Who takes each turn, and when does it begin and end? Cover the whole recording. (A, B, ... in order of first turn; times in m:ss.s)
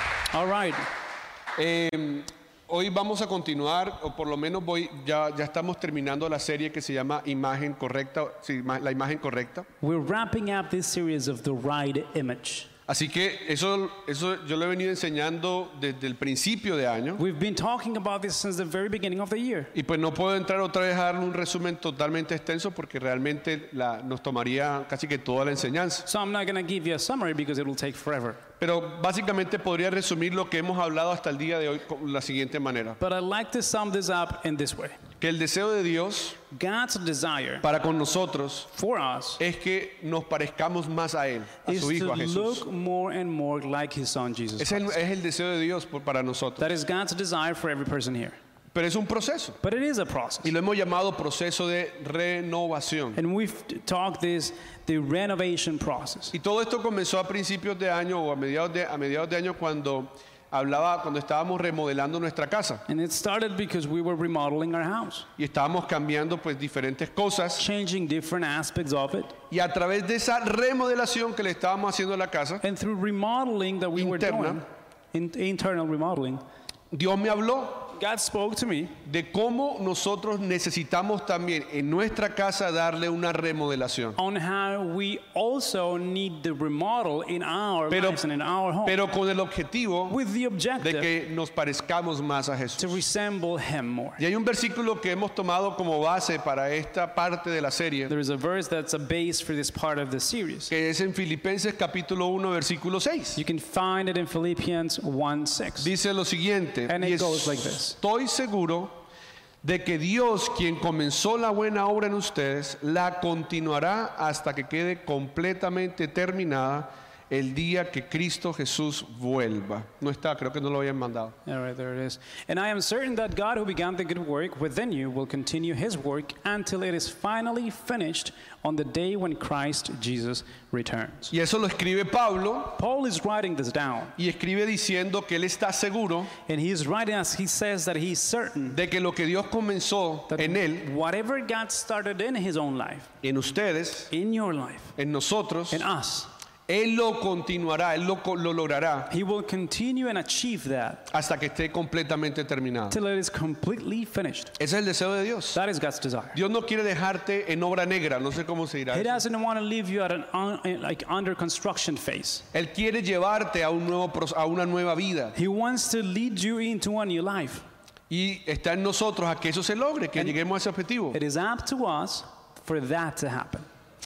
0:00.3-0:00.9 A
0:01.6-0:09.7 B
0:09.8-0:12.7 A
0:12.9-0:17.2 B
0:17.2-0:19.7 A
0:19.7-0:26.0 B
0:26.0-0:28.4 A
0:28.6-0:33.0 B
0:33.0-0:35.0 A
0:35.2-0:36.4 B
0:36.5-0:37.6 A
0:37.6-0:38.7 B
0:38.7-0:39.4 A
0:39.4-0:42.6 B
0:41.6-0:45.0 A
0:44.6-0:46.7 B
0:46.6-0:48.4 A
0:48.7-0:49.6 B
0:49.6-0:50.5 A
0:50.4-0:53.2 B
0:53.1-0:56.3 A
0:56.3-1:02.8 B
1:02.9-1:05.3 A
1:05.4-1:07.6 B
1:07.6-1:09.4 A
1:09.5-1:12.6 B
1:12.6-1:16.4 A
1:13.9-1:14.6 B
1:16.9-1:17.9 B
1:17.9-1:19.0 A
1:19.0-1:24.2 B
1:24.2-1:29.0 A
1:27.9-1:28.2 B
1:28.8-1:30.2 B
1:30.1-1:31.1 A
1:30.8-1:33.0 B
1:32.8-1:34.2 A
1:34.2-1:38.1 B
1:38.1-1:40.7 A
1:40.7-1:43.4 B
1:43.4-1:45.9 A
1:45.8-1:48.9 B
1:46.9-1:48.0 A
1:49.6-2:01.4 B
2:01.4-2:11.3 A
2:11.3-2:12.7 B
2:12.7-2:14.1 A
2:14.2-2:16.3 B
2:16.4-2:18.8 A
2:18.7-2:20.9 B
2:20.3-2:23.1 A
2:23.2-2:24.1 B
2:24.1-2:24.9 A
2:25.0-2:25.8 B
2:25.7-2:26.3 A
2:26.7-2:29.1 B
2:29.1-2:31.1 A
2:31.1-2:33.0 B
2:32.9-2:34.5 A
2:34.6-2:35.6 B
2:35.5-2:36.4 A
2:36.3-2:39.2 B
2:38.9-2:42.5 A
2:42.5-2:45.3 B
2:45.3-2:47.6 A
2:48.1-2:51.2 B
2:51.1-2:53.7 A